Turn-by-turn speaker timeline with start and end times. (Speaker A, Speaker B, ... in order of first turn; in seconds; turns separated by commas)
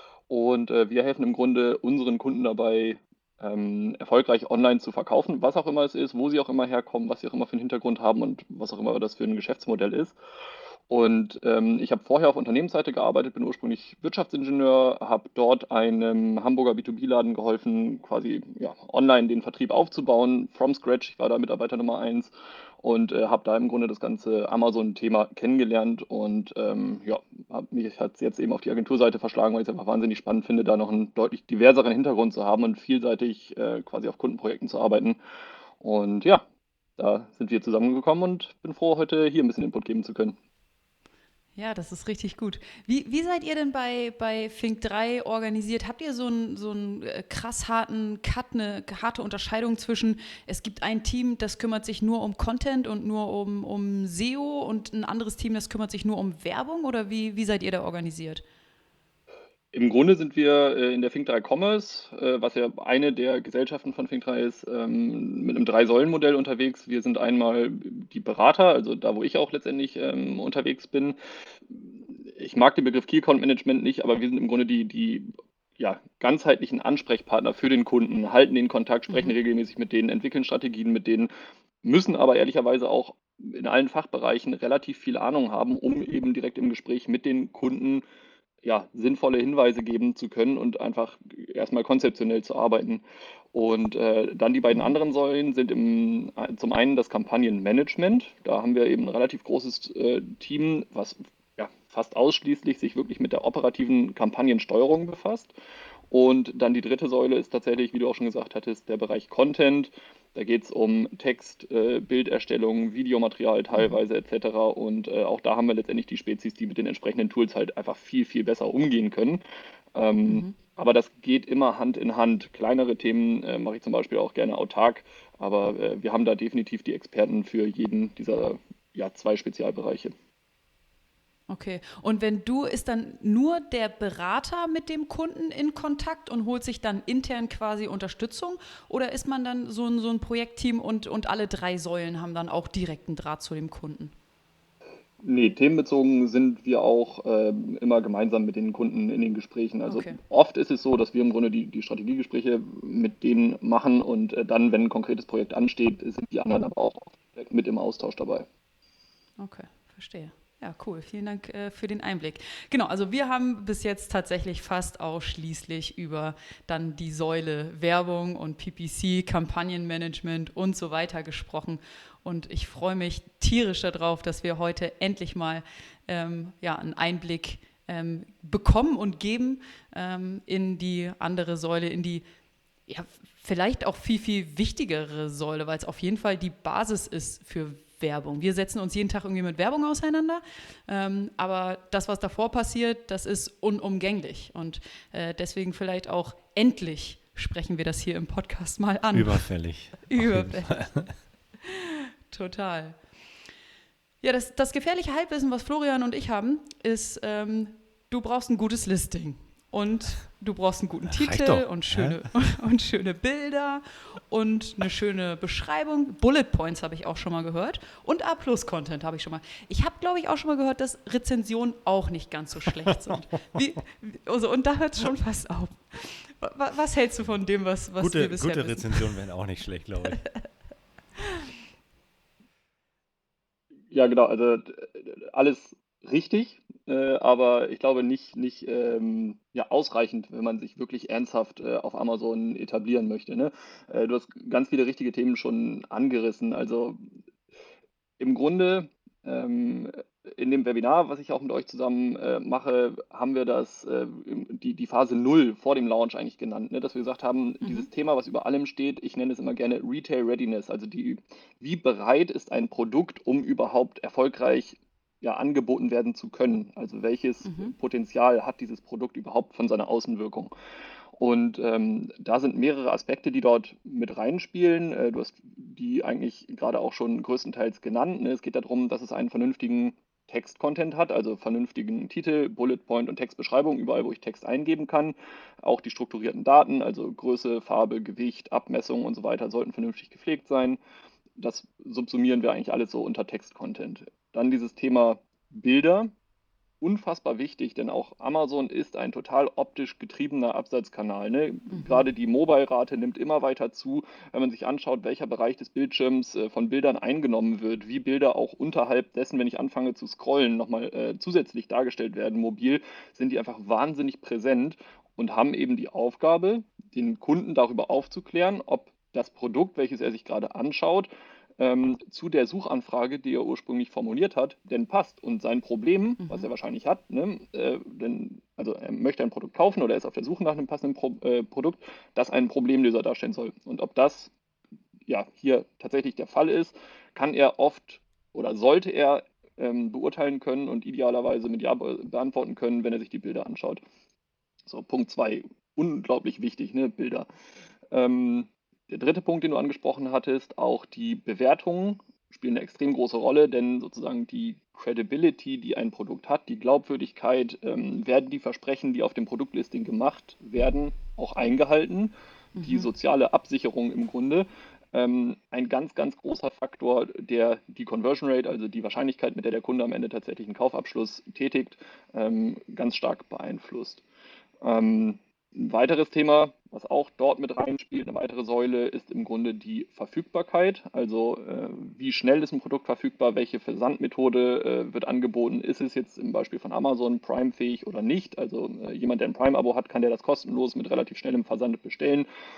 Speaker A: 0.3-10.2, Speaker A: 10.9-35.2, Speaker A: 35.8-36.5, Speaker A: 37.0-40.4, Speaker B: 41.6-58.4, Speaker A: 59.7-81.3, Speaker A: 81.8-88.0, Speaker A: 88.6-105.5, Speaker A: 106.1-119.4, Speaker A: 120.0-130.1, Speaker B: 120.3-120.5, Speaker B: 131.5-144.1, Speaker A: 145.2-158.5, Speaker B: 149.9-150.2, Speaker B: 159.4-182.2, Speaker B: 182.9-199.5, Speaker C: 199.1-201.1, Speaker B: 200.0-201.1, Speaker B: 201.6-203.0, Speaker B: 204.2-229.0, Speaker C: 211.1-212.2, Speaker C: 228.0-230.2, Speaker A: 233.9-247.0, Speaker A: 248.2-270.5, Speaker B: 257.6-257.9, Speaker B: 267.5-267.7, Speaker A: 271.2-290.8, Speaker A: 291.4-296.1, Speaker A: 296.8-334.3, Speaker B: 301.7-302.1, Speaker B: 326.2-326.5, Speaker A: 335.1-343.8, Speaker A: 344.7-347.3, Speaker A: 347.9-374.0, Speaker B: 362.6-362.9, Speaker A: 374.6-392.3